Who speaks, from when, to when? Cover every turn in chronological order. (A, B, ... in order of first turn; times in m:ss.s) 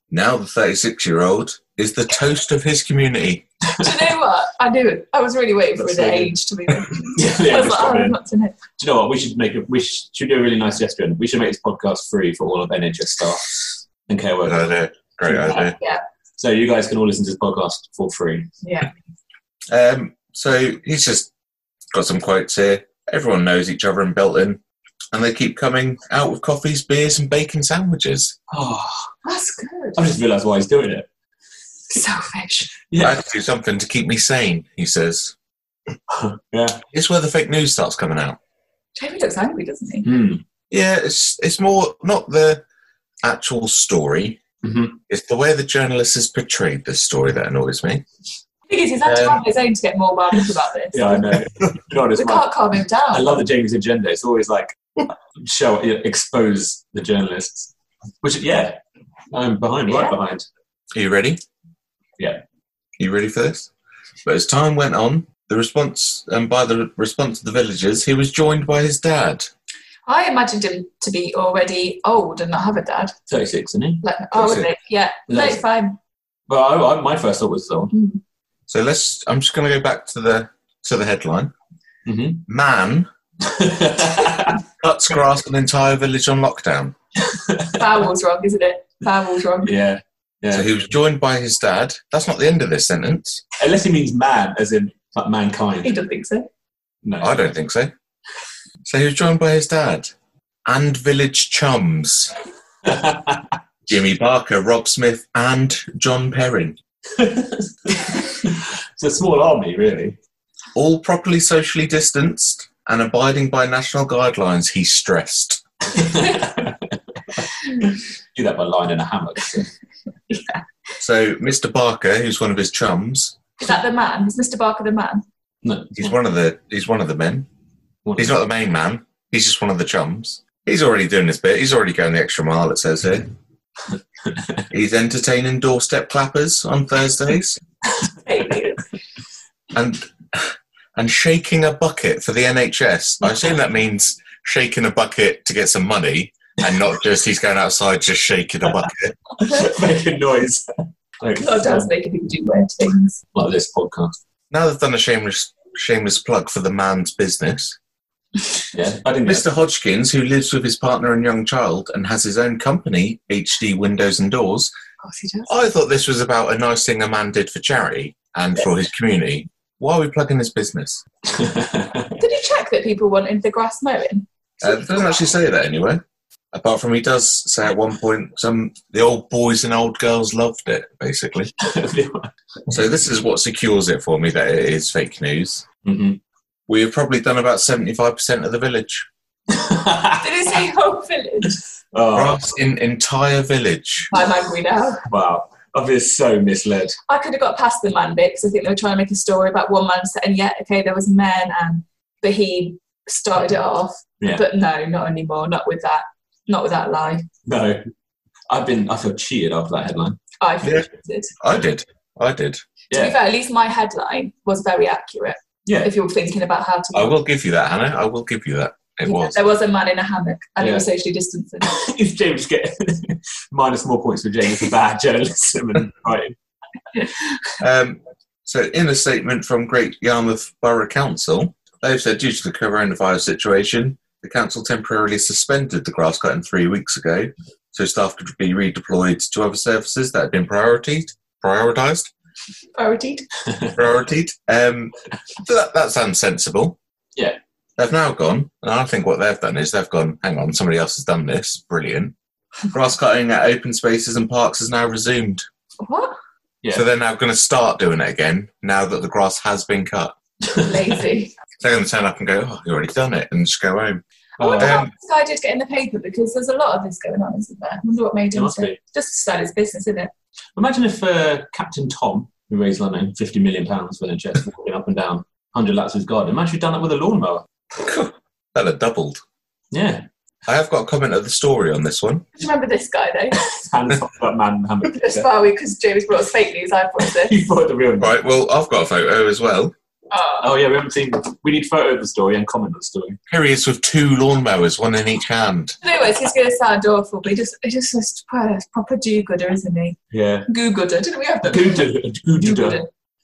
0:00.1-0:03.5 A
0:03.7-0:04.1 B
0:03.8-0:08.6 C
0:05.8-0:06.3 B
0:07.0-0:08.2 B
0:08.8-0:14.7 B
0:14.4-0:15.8 A
0:15.3-0:16.0 C
0:16.4-0:18.5 B
0:18.6-0:18.9 C
0:19.7-0:21.3 A
0:21.9-0:24.6 A
0:25.1-0:28.4 A
0:28.5-0:29.1 B
0:29.2-0:30.0 C
0:30.0-0:31.1 B
0:31.9-0:32.7 C
0:32.9-0:33.2 B
0:33.0-0:35.4 A
0:36.1-0:36.8 B
0:36.9-0:38.4 A
0:39.0-0:40.1 C
0:40.0-0:40.4 B
0:40.7-0:42.6 A
0:43.2-0:44.4 A
0:44.6-0:45.0 B
0:45.1-0:48.0 A
0:48.7-0:51.4 C
0:49.0-0:49.4 A
0:50.9-0:52.5 B
0:52.2-0:53.4 C
0:53.1-0:58.8 B
0:59.3-1:00.4 B
0:59.9-1:00.2 C
1:00.9-1:01.4 A
1:03.0-1:03.7 A
1:04.2-1:09.5 A
1:10.1-1:13.1 C
1:13.3-1:14.0 B
1:14.0-1:16.0 C
1:14.4-1:14.7 A
1:15.3-1:15.6 B
1:16.5-1:17.9 B
1:17.9-1:18.2 C
1:18.7-1:21.5 A
1:22.0-1:22.5 B
1:22.5-1:23.1 A
1:23.4-1:24.6 B
1:24.8-1:27.0 A
1:27.2-1:28.0 B
1:27.8-1:29.7 C
1:29.6-1:30.7 B
1:30.5-1:33.4 A
1:33.6-1:35.9 B
1:35.8-1:36.5 C
1:37.0-1:37.4 B
1:37.2-1:37.9 A
1:38.8-1:40.1 A
1:40.7-1:42.3 A
1:42.8-1:43.5 B
1:43.9-1:46.8 A
1:47.1-1:50.2 B
1:50.8-1:55.6 A
1:55.9-1:59.7 B
2:00.3-2:00.6 C
2:01.0-2:03.4 A
2:03.6-2:05.2 C
2:05.6-2:06.0 B
2:05.9-2:07.5 A
2:08.0-2:08.4 B
2:08.2-2:13.3 A
2:14.3-2:14.6 B
2:14.7-2:17.6 A
2:18.2-2:18.8 C
2:19.7-2:29.2 A
2:29.4-2:30.7 B
2:31.2-2:31.9 B
2:31.4-2:33.2 C
2:33.4-2:34.2 B
2:34.5-2:37.8 A
2:38.7-2:39.5 B
2:39.2-2:44.7 A
2:45.0-2:45.6 C
2:45.5-2:51.0 A
2:51.3-2:52.2 B
2:52.2-2:55.2 C
2:54.6-2:56.0 A
2:56.5-3:01.5 A
3:01.6-3:02.3 B
3:02.7-3:05.6 A
3:05.8-3:06.2 B
3:06.7-3:09.1 A
3:09.5-3:10.6 B
3:10.2-3:11.6 C
3:11.9-3:12.5 B
3:12.1-3:14.1 A
3:14.1-3:15.0 C
3:15.1-3:17.0 B
3:17.1-3:27.3 C
3:27.5-3:27.8 B
3:28.5-3:30.2 B
3:30.4-3:31.3 C
3:31.4-3:32.6 A
3:32.9-3:33.2 B
3:32.9-3:37.2 C
3:35.7-3:35.9 B
3:36.9-3:39.5 A
3:39.0-3:41.7 C
3:40.6-3:40.9 B
3:41.6-3:46.4 B
3:47.6-4:02.1 A
4:02.8-4:03.3 C
4:03.8-4:06.8 A
4:07.8-4:12.2 A
4:12.7-4:15.5 A
4:15.8-4:16.2 C
4:16.7-4:20.2 A
4:20.5-4:20.9 B
4:20.6-4:21.3 C
4:21.6-4:24.0 A
4:24.4-4:30.1 C
4:24.4-4:24.8 B
4:24.6-4:24.9 A
4:28.3-4:28.8 B
4:30.6-4:37.5 B
4:37.8-4:39.2 A
4:39.7-4:40.0 B
4:40.5-4:42.3 A
4:42.4-4:43.5 C
4:43.5-4:45.3 B
4:44.9-4:47.5 C
4:47.2-4:48.2 B
4:48.0-4:49.7 A
4:50.1-4:50.5 C
4:50.4-4:53.2 B
4:53.3-4:55.8 A
4:55.8-5:02.9 C
5:00.1-5:00.5 B
5:01.4-5:02.8 B